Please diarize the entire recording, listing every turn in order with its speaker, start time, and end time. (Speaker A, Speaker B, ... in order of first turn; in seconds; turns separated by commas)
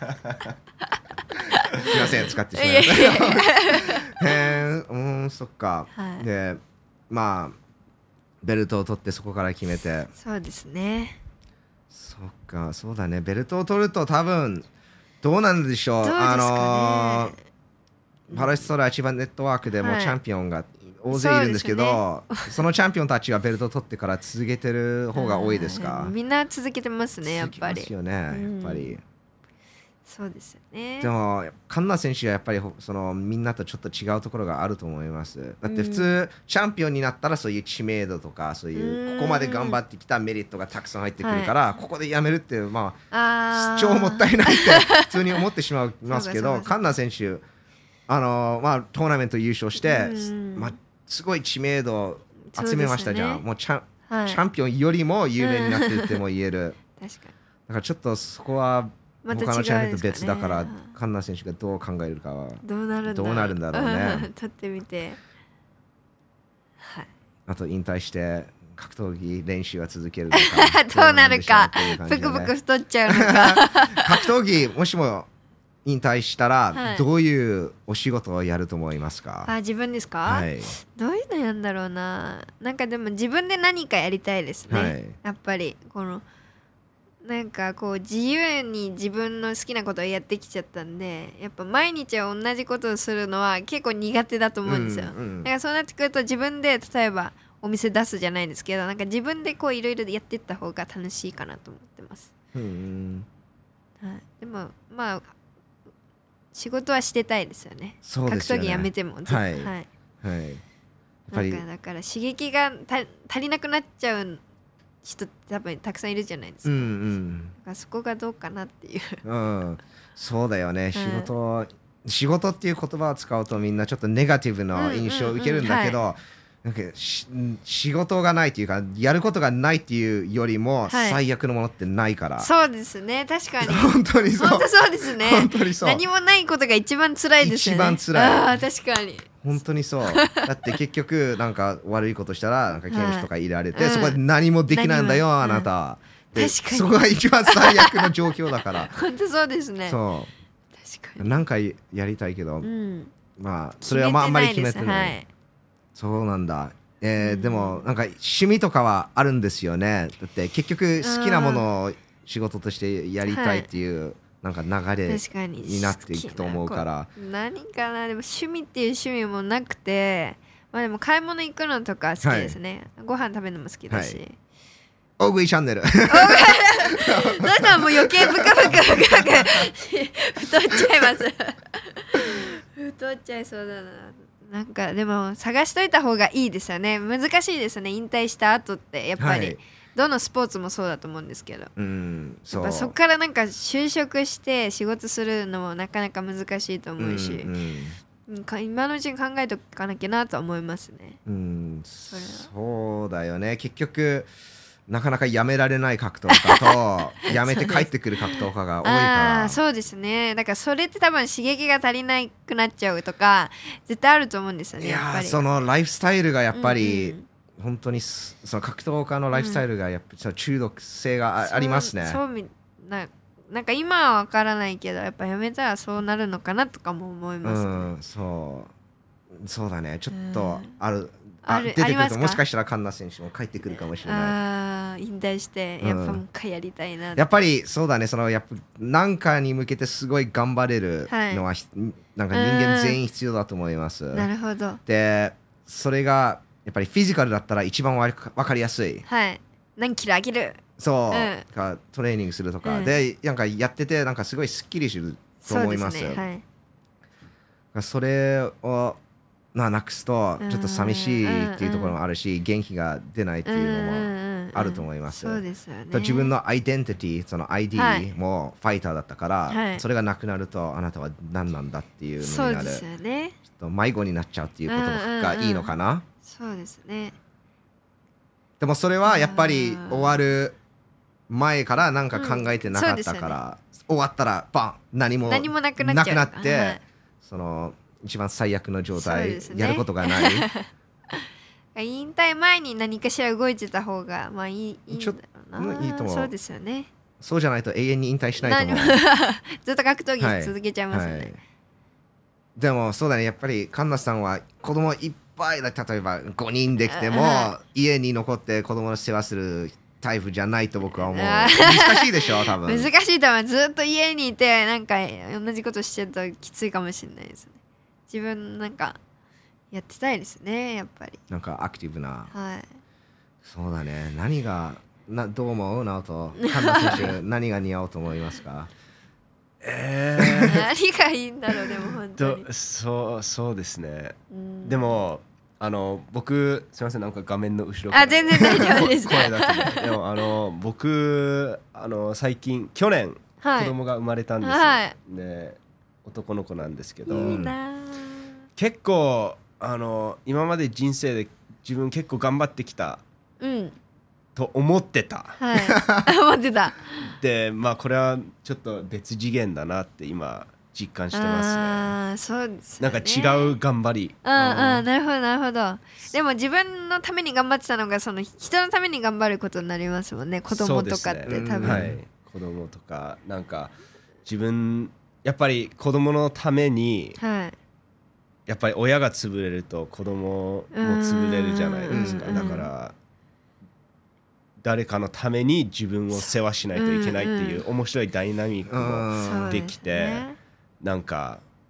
Speaker A: 1.5-1.9, Speaker B: 1.8-7.6, Speaker A: 2.5-4.5, Speaker A: 6.0-6.3, Speaker B: 8.4-10.1, Speaker A: 10.2-11.2, Speaker B: 11.9-14.7, Speaker B: 15.2-17.4, Speaker A: 16.0-17.4, Speaker B: 18.3-26.1, Speaker A: 18.3-18.7, Speaker A: 19.8-20.2, Speaker A: 21.1-22.5, Speaker A: 25.1-29.0, Speaker B: 27.2-29.0, Speaker A: 30.1-31.1, Speaker B: 31.0-47.4, Speaker A: 35.6-36.1, Speaker A: 38.7-39.8, Speaker A: 41.2-41.5, Speaker A: 43.1-45.4, Speaker A: 46.1-46.7, Speaker B: 48.1-56.8, Speaker A: 49.8-50.8, Speaker A: 52.5-53.4, Speaker A: 54.1-54.4, Speaker A: 55.4-56.2, Speaker A: 57.0-57.3, Speaker B: 57.7-64.3, Speaker A: 59.2-60.9, Speaker A: 62.6-65.2, Speaker B: 67.5-72.5, Speaker A: 70.3-74.3, Speaker B: 73.1-75.3, Speaker B: 75.8-79.5, Speaker A: 76.7-77.1, Speaker A: 79.5-86.2, Speaker B: 80.3-80.7, Speaker B: 84.7-85.2, Speaker A: 87.2-102.3, Speaker B: 94.7-95.5, Speaker B: 102.5-103.3, Speaker A: 104.0-105.3, Speaker A: 106.5-109.9, Speaker B: 108.0-110.6, Speaker B: 111.3-111.6, Speaker A: 111.3-114.4, Speaker A: 115.0-116.9, Speaker B: 116.7-117.5, Speaker A: 117.6-119.2, Speaker B: 119.2-132.5, Speaker A: 121.0-121.3, Speaker A: 124.7-126.0, Speaker A: 130.9-131.2, Speaker A: 132.4-139.4, Speaker B: 133.6-136.0, Speaker B: 137.4-138.6, Speaker B: 139.4-149.0, Speaker A: 140.1-140.5, Speaker A: 142.9-145.7, Speaker A: 146.3-148.3, Speaker A: 148.9-150.0, Speaker B: 149.9-150.3, Speaker A: 150.8-151.4, Speaker B: 151.2-152.7, Speaker A: 152.6-153.1, Speaker B: 153.4-155.2, Speaker A: 153.8-155.3, Speaker B: 155.9-167.1, Speaker A: 157.2-157.9, Speaker A: 161.0-161.7, Speaker A: 163.2-163.7, Speaker A: 165.1-174.4, Speaker B: 172.2-172.6, Speaker B: 173.9-174.2, Speaker B: 175.2-179.7, Speaker A: 176.1-191.7, Speaker B: 180.8-181.2, Speaker B: 189.2-189.6, Speaker B: 191.8-192.9, Speaker A: 192.5-197.5, Speaker B: 197.0-198.0, Speaker A: 198.3-201.2, Speaker B: 201.3-204.3, Speaker A: 202.1-202.5, Speaker B: 204.9-209.6, Speaker A: 206.3-215.4, Speaker B: 214.8-222.2, Speaker A: 216.5-217.3, Speaker A: 219.3-219.6, Speaker A: 221.4-227.9, Speaker B: 227.4-228.7, Speaker B: 229.3-234.4, Speaker A: 230.1-230.8, Speaker A: 231.4-232.4, Speaker A: 233.7-237.3, Speaker B: 235.8-236.2, Speaker B: 237.2-244.3, Speaker A: 241.1-241.4, Speaker A: 242.3-243.0, Speaker A: 244.1-244.8, Speaker B: 244.9-249.0, Speaker A: 249.1-251.4, Speaker B: 250.8-256.2, Speaker A: 252.6-253.0, Speaker A: 255.4-256.4, Speaker B: 257.7-259.0, Speaker B: 259.5-272.9, Speaker A: 260.4-262.0, Speaker A: 263.5-266.3, Speaker A: 267.8-268.1, Speaker A: 269.5-269.8, Speaker A: 272.2-273.4, Speaker B: 273.5-276.1, Speaker A: 274.7-275.7, Speaker A: 276.2-277.1, Speaker B: 278.6-280.6, Speaker A: 279.1-280.2, Speaker B: 281.3-290.5, Speaker A: 282.1-283.4, Speaker A: 285.3-286.8, Speaker A: 288.9-296.9, Speaker B: 294.9-296.3, Speaker B: 297.2-299.0, Speaker A: 298.4-301.3, Speaker B: 300.2-301.4, Speaker B: 302.6-312.9, Speaker A: 306.9-307.5, Speaker A: 310.9-317.6, Speaker A: 318.1-319.0, Speaker A: 319.7-321.2, Speaker B: 321.3-322.3, Speaker A: 322.3-322.7, Speaker B: 323.4-328.7, Speaker A: 326.4-327.1, Speaker C: 329.6-330.7, Speaker B: 330.2-330.6, Speaker A: 330.4-332.5, Speaker C: 332.2-347.4, Speaker A: 334.3-335.0, Speaker A: 337.9-339.9, Speaker A: 343.4-343.8, Speaker A: 344.4-344.9, Speaker A: 347.1-348.3, Speaker B: 347.1-347.6, Speaker C: 348.6-353.0, Speaker A: 353.4-353.8, Speaker C: 354.4-355.4, Speaker A: 355.4-357.1, Speaker B: 355.6-356.1, Speaker C: 357.1-361.9, Speaker A: 361.1-363.6, Speaker C: 362.8-364.9, Speaker A: 364.2-371.9, Speaker C: 370.5-373.7, Speaker B: 371.3-372.0, Speaker C: 374.2-377.2, Speaker A: 377.2-377.6, Speaker C: 378.5-382.9, Speaker A: 380.7-382.7, Speaker B: 381.9-382.7, Speaker C: 384.6-390.3, Speaker A: 386.1-387.6, Speaker B: 388.7-389.6, Speaker A: 389.2-390.4, Speaker C: 390.8-391.4